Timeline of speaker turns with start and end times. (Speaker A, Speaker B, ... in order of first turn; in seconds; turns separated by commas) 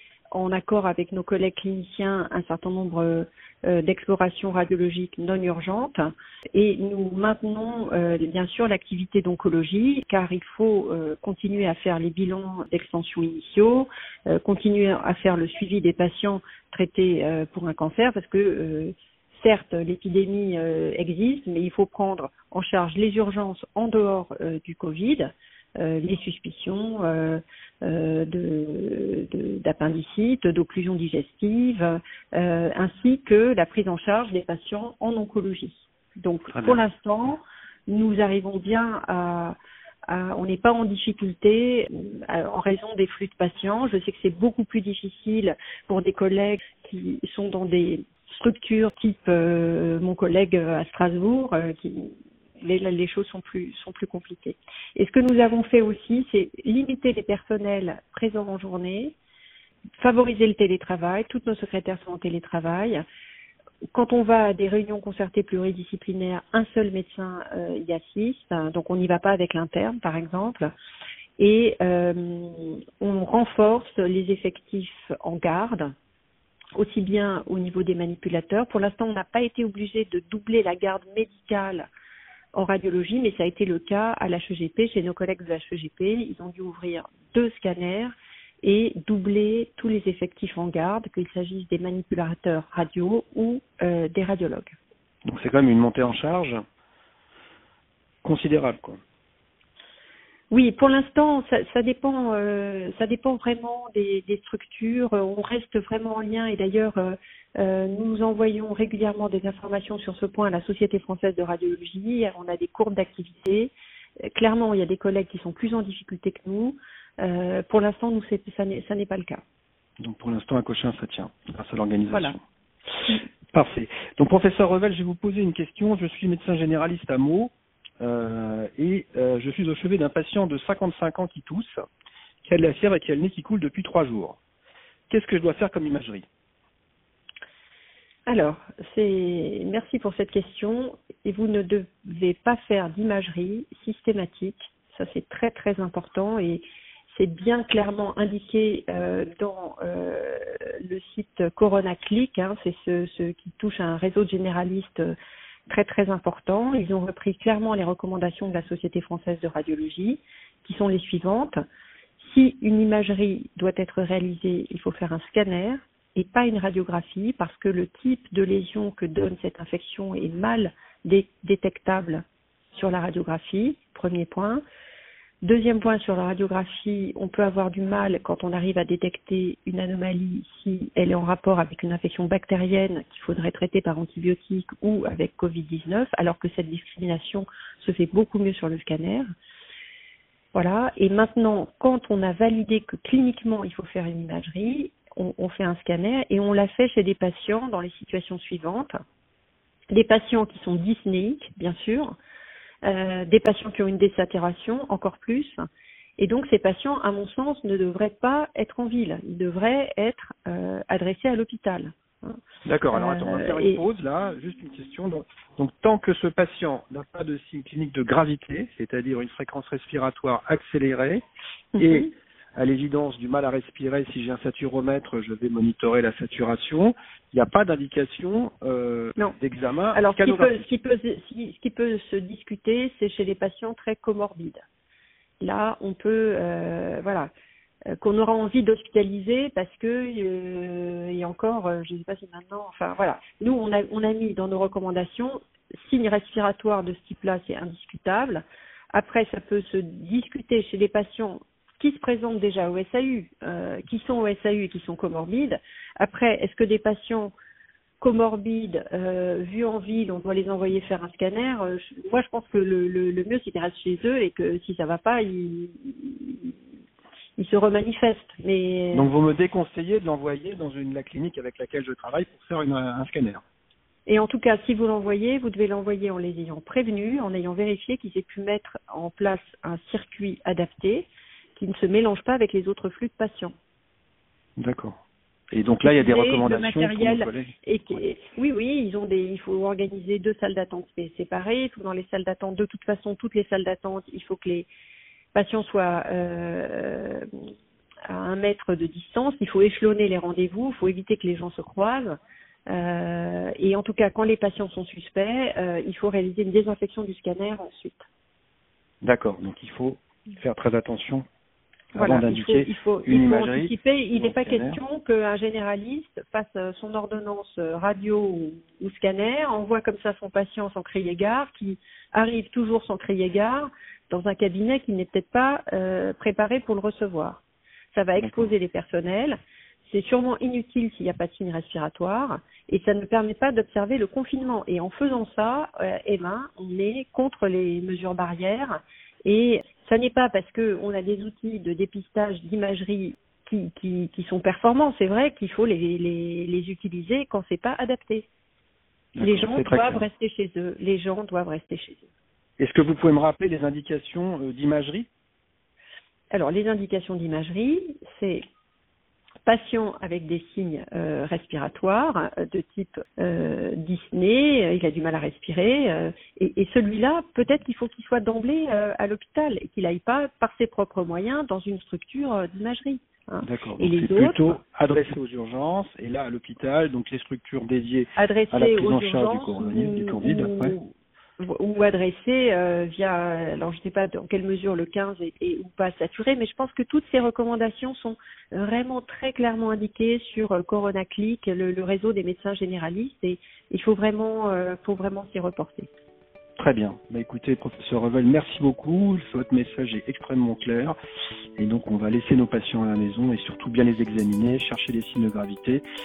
Speaker A: 0.3-39.5, Speaker B: 36.5-36.8, Speaker A: 40.1-59.1, Speaker A: 60.0-63.0, Speaker A: 63.9-70.7, Speaker A: 71.4-75.9, Speaker A: 76.8-81.9, Speaker A: 82.5-94.7, Speaker B: 95.2-96.6, Speaker B: 98.2-99.0, Speaker A: 100.5-113.7, Speaker A: 114.2-119.4, Speaker B: 120.0-122.4, Speaker A: 122.1-122.3, Speaker B: 123.5-131.8, Speaker B: 132.4-134.4, Speaker B: 135.1-136.2, Speaker A: 138.2-155.1, Speaker A: 155.7-161.6, Speaker A: 162.2-172.2, Speaker A: 172.7-174.6, Speaker A: 175.4-189.3, Speaker A: 190.5-199.0, Speaker A: 199.9-202.2, Speaker A: 202.8-205.7, Speaker A: 206.2-212.4, Speaker B: 212.6-221.2, Speaker A: 212.9-213.8, Speaker A: 221.7-222.1, Speaker B: 221.8-230.6, Speaker A: 229.9-234.6, Speaker A: 235.4-237.3, Speaker A: 237.9-257.3, Speaker A: 258.0-266.5, Speaker A: 267.4-269.1, Speaker B: 268.9-273.4, Speaker A: 274.1-283.5, Speaker B: 284.6-285.0, Speaker B: 285.5-287.5, Speaker A: 285.8-294.7, Speaker A: 295.3-297.3, Speaker A: 298.1-308.0, Speaker B: 309.0-311.2, Speaker B: 311.9-314.8, Speaker A: 311.9-327.4, Speaker A: 327.9-348.3, Speaker B: 328.2-328.5, Speaker B: 349.1-350.1, Speaker A: 349.2-352.1, Speaker B: 352.6-355.1, Speaker A: 356.3-358.4, Speaker A: 359.4-374.6, Speaker B: 373.4-380.8, Speaker A: 378.1-395.9, Speaker B: 396.6-400.9, Speaker B: 401.6-405.8